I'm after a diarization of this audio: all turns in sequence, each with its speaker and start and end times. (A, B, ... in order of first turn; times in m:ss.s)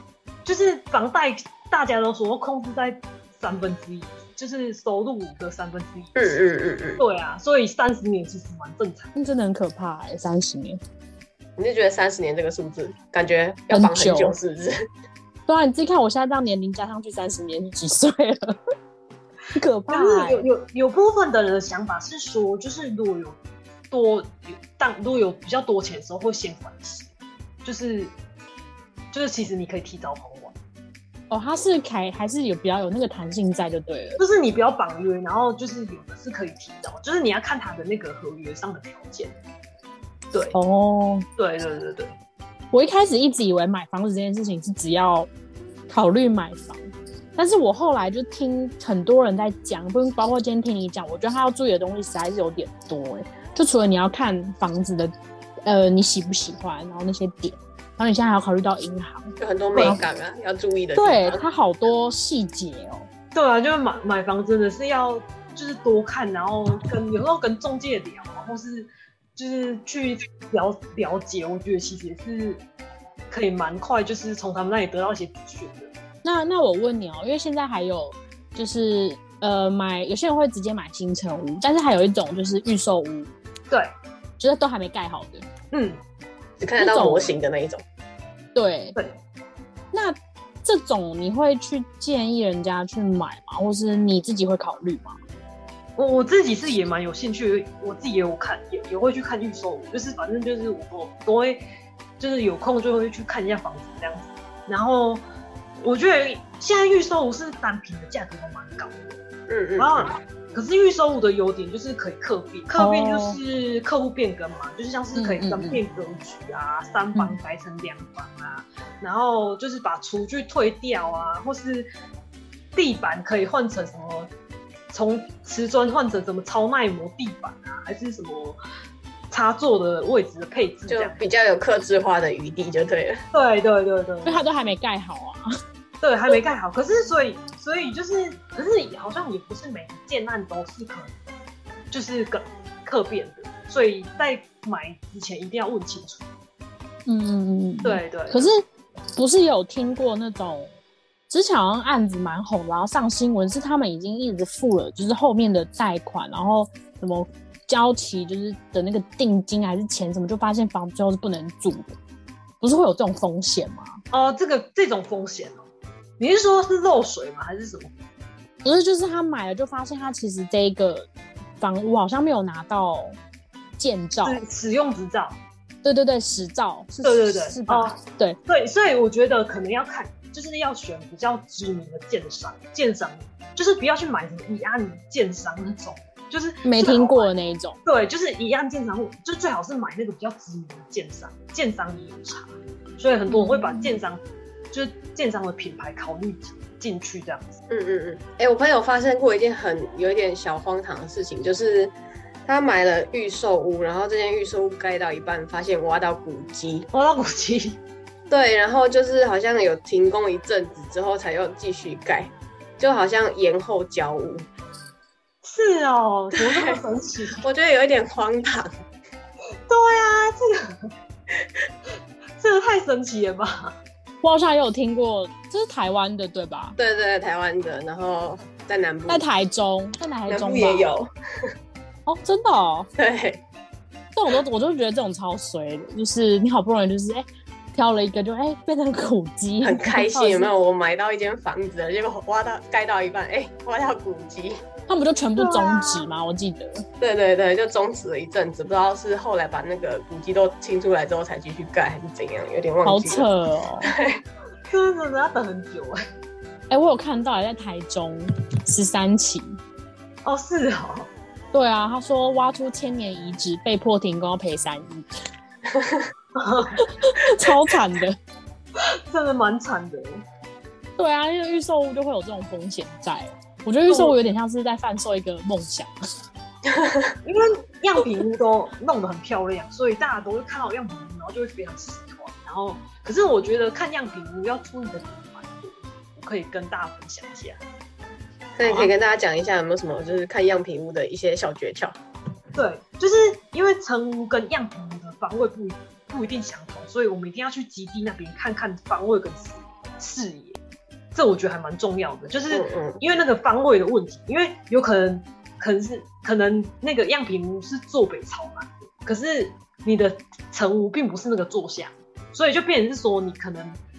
0:00.4-0:06.4 A
0:06.2-0:07.0 B
0:07.0-0:09.1 A
0:09.2-0:10.8 C
0:11.6-0:14.8 B
0:13.7-0:14.4 C
0:15.5-0:18.6 C
0:19.6-0:20.5 C
0:19.9-0:23.4 A
0:23.9-0:27.1 A
0:27.6-0:28.1 A
0:29.1-0:30.6 A
0:31.3-0:34.2 C
0:34.2-0:39.4 A
0:40.3-0:40.6 A
0:40.5-0:41.2 C
0:41.4-0:42.1 A
0:42.7-0:45.3 C
0:45.9-0:46.8 C
0:47.4-0:55.1 C
0:55.6-1:00.0 C
0:59.4-1:01.4 B
1:01.0-1:03.1 C
1:03.3-1:12.6 A
1:13.3-1:15.9 A
1:16.2-1:23.3 C
1:23.7-1:23.9 A
1:24.4-1:25.5 C
1:25.7-1:26.0 A
1:26.6-1:27.8 B
1:26.8-1:27.4 C
1:28.6-1:29.0 C
1:29.9-1:35.2 C
1:36.0-1:41.6 A
1:42.2-1:45.2 A
1:45.8-1:49.2 A
1:49.5-1:50.1 B
1:49.8-2:01.9 A
1:52.8-1:53.4 C
1:55.1-1:55.8 C
2:02.8-2:04.3 A
2:04.9-2:08.6 A
2:09.3-2:11.2 A
2:10.9-2:13.2 B
2:13.3-2:14.4 A
2:14.2-2:15.4 C
2:16.0-2:21.2 A
2:21.9-2:26.3 A
2:27.1-2:28.6 C
2:27.8-2:28.5 A
2:29.1-2:30.8 C
2:31.3-2:42.0 C
2:42.6-2:44.0 C
2:44.1-2:45.6 A
2:46.2-2:47.9 A
2:48.6-2:51.1 C
2:51.6-2:53.2 C
2:53.8-2:54.4 C
2:54.2-2:55.4 A
2:55.8-2:58.4 C
2:57.0-3:07.3 A
3:06.6-3:07.8 C
3:07.8-3:14.2 A
3:13.3-3:14.0 C
3:14.7-3:17.5 A
3:17.7-3:21.9 B
3:22.5-3:26.9 B
3:26.9-3:27.8 A
3:28.3-3:34.5 B
3:35.4-3:37.4 A
3:36.4-3:36.8 B
3:37.4-3:38.7 B
3:39.7-3:40.9 A
3:42.4-3:43.8 A
3:44.2-3:46.8 C
3:46.8-3:49.2 B
3:49.1-3:50.9 C
3:50.3-3:51.1 B
3:52.1-3:52.9 C
3:53.0-3:53.4 B
3:54.1-4:00.5 C
3:59.6-4:04.6 B
4:04.9-4:06.8 C
4:05.4-4:06.1 A
4:07.0-4:13.2 B
4:12.8-4:13.9 C
4:13.9-4:14.2 B
4:14.7-4:16.0 A
4:16.7-4:19.6 C
4:20.2-4:21.1 A
4:21.5-4:25.1 C
4:25.7-4:26.1 B
4:26.4-4:26.8 A
4:26.8-4:28.2 C
4:28.8-4:30.2 A
4:31.0-4:35.9 C
4:33.9-4:34.2 A
4:36.6-4:37.2 B
4:37.2-4:47.6 A
4:48.6-4:52.0 B
4:48.6-4:48.9 C
4:52.6-5:00.6 A
5:01.1-5:13.8 A
5:02.5-5:03.0 B